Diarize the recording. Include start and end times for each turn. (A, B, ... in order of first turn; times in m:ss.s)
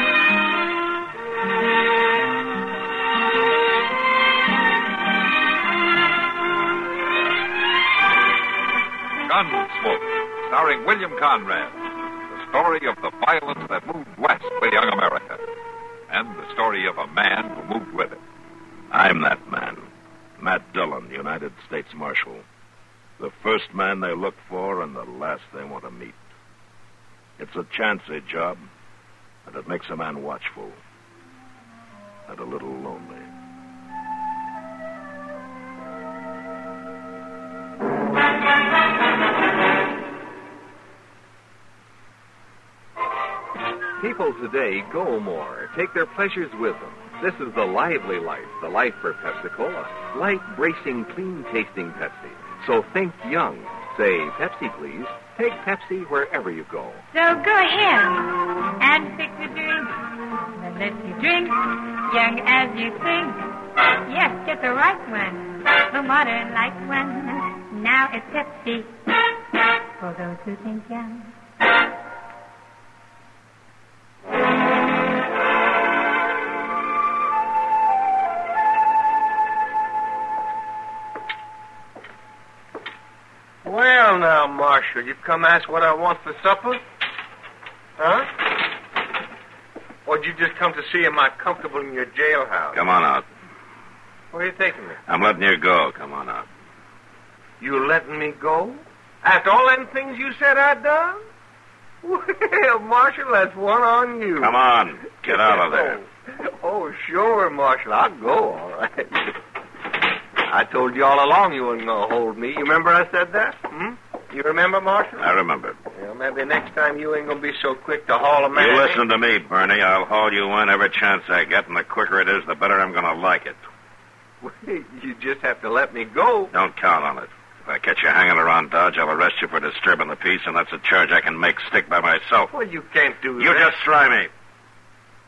0:09.2-0:15.4 A
0:16.1-0:18.2 A
0:18.9-0:22.4 B
0:23.2-0:26.2 B
0:27.4-0:28.6 B
0:29.5-0:30.8 B
0:32.3-0:33.3 B
0:44.0-0:57.0 C
0:57.1-1:09.1 D
1:10.0-1:11.4 D
1:23.6-1:26.8 E
1:28.0-1:28.5 E
1:30.1-1:32.8 E
1:32.7-1:33.3 B
1:34.3-1:35.0 E
1:35.1-1:36.5 B
1:37.6-1:41.2 E
1:42.0-1:44.6 E
1:44.4-1:46.0 B
1:45.2-1:49.3 E
1:50.5-1:55.3 E
1:55.2-1:55.8 B
1:55.9-1:59.0 E
1:58.5-2:03.6 B
2:04.4-2:06.5 E
2:06.5-2:12.5 B
2:12.5-2:13.7 E
2:13.4-2:14.3 B